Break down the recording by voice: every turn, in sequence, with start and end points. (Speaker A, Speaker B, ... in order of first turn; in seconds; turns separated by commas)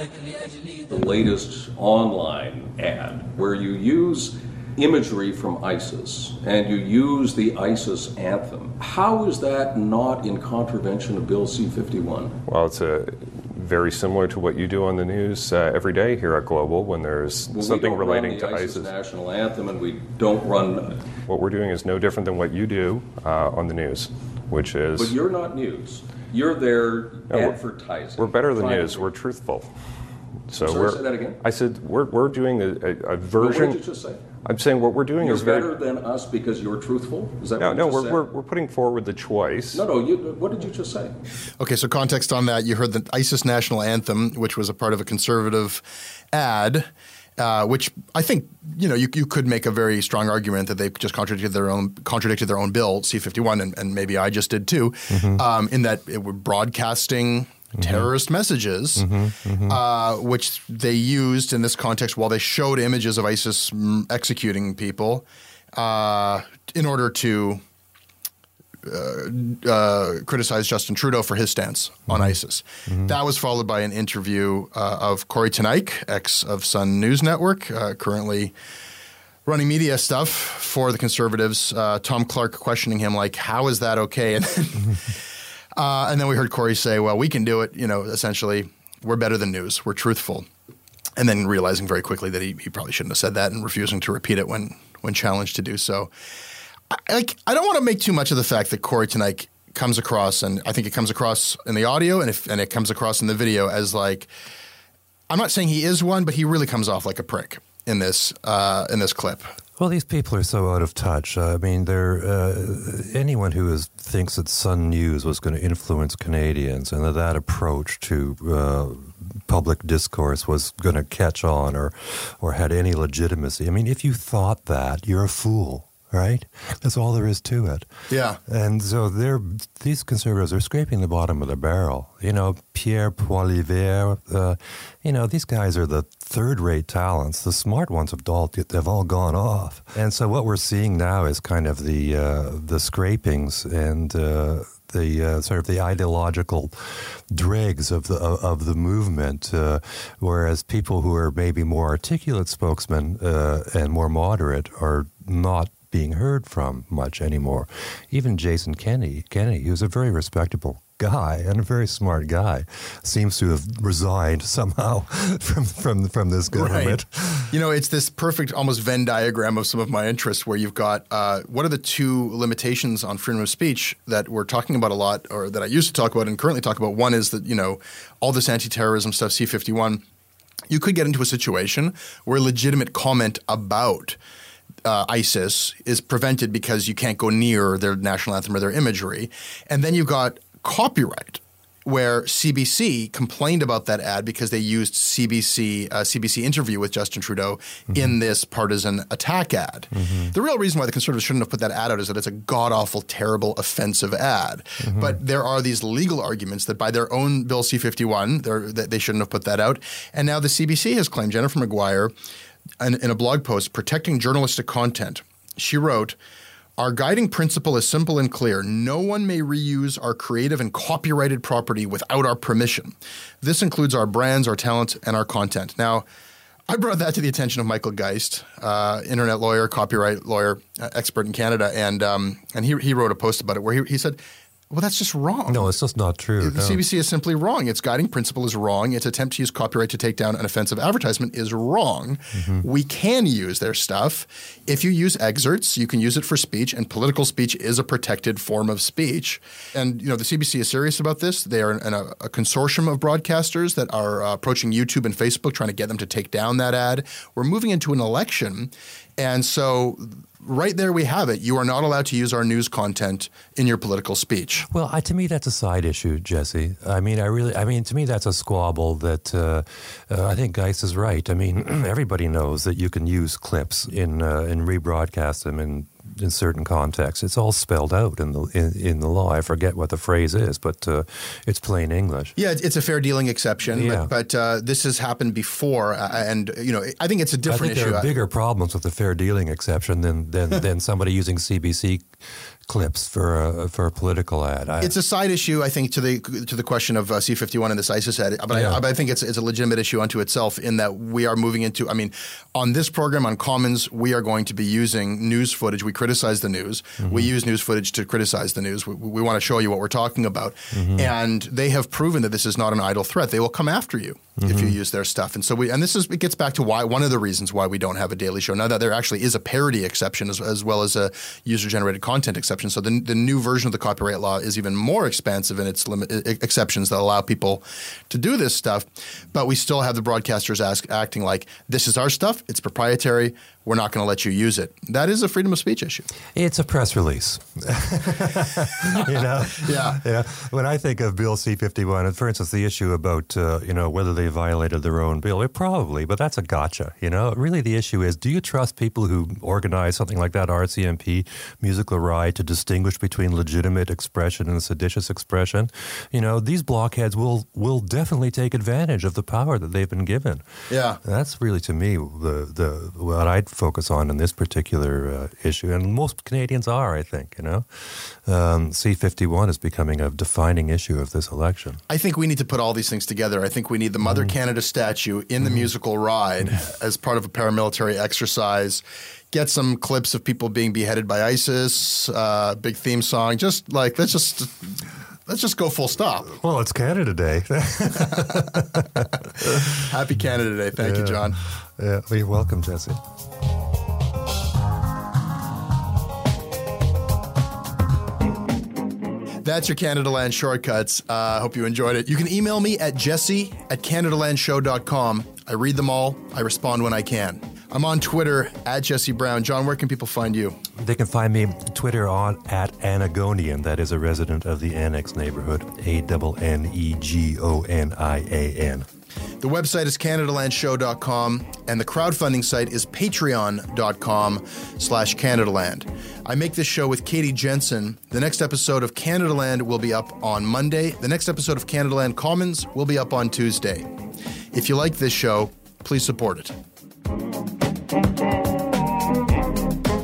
Speaker A: 0.7-12.4, Speaker B: 12.5-18.9, Speaker A: 17.5-21.0, Speaker B: 21.2-25.2, Speaker A: 24.9-29.1, Speaker B: 27.3-27.6, Speaker B: 28.2-29.7, Speaker B: 30.5-33.8, Speaker A: 30.6-31.4, Speaker A: 33.4-34.2, Speaker B: 34.4-35.8, Speaker A: 35.2-38.3, Speaker B: 37.6-39.9, Speaker A: 39.7-41.1, Speaker C: 41.6-59.1, Speaker D: 55.1-55.4, Speaker D: 57.8-58.1, Speaker D: 59.0-59.8, Speaker C: 59.6-67.6, Speaker C: 68.8-78.5, Speaker D: 72.1-72.3, Speaker D: 72.9-73.2, Speaker C: 79.5-85.1, Speaker C: 85.8-90.5, Speaker C: 91.2-96.1, Speaker C: 96.9-104.3, Speaker C: 105.3-109.5, Speaker D: 109.8-127.9, Speaker C: 128.1-128.4, Speaker D: 128.5-167.5, Speaker C: 166.5-180.0, Speaker C: 180.7-184.2, Speaker C: 184.8-212.1, Speaker D: 200.0-200.3, Speaker D: 204.8-205.2, Speaker C: 212.8-216.2, Speaker C: 216.8-226.1, Speaker C: 226.7-234.2, Speaker C: 234.7-235.8, Speaker D: 235.5-236.8, Speaker C: 236.4-264.7, Speaker D: 242.3-242.7, Speaker D: 264.7-282.4, Speaker C: 282.4-288.1, Speaker D: 283.7-284.1, Speaker D: 287.5-292.1, Speaker D: 292.7-294.9, Speaker C: 294.8-336.1, Speaker D: 298.5-298.8, Speaker D: 307.0-307.3, Speaker D: 310.7-311.1, Speaker D: 314.4-314.8, Speaker D: 336.4-360.4, Speaker C: 339.5-340.0, Speaker C: 360.7-361.0, Speaker D: 361.0-371.8, Speaker C: 371.9-386.3, Speaker D: 386.3-389.8, Speaker C: 387.9-391.4, Speaker D: 390.8-393.0, Speaker C: 399.4-410.6, Speaker D: 410.8-418.9, Speaker C: 419.4-433.9, Speaker C: 434.5-436.6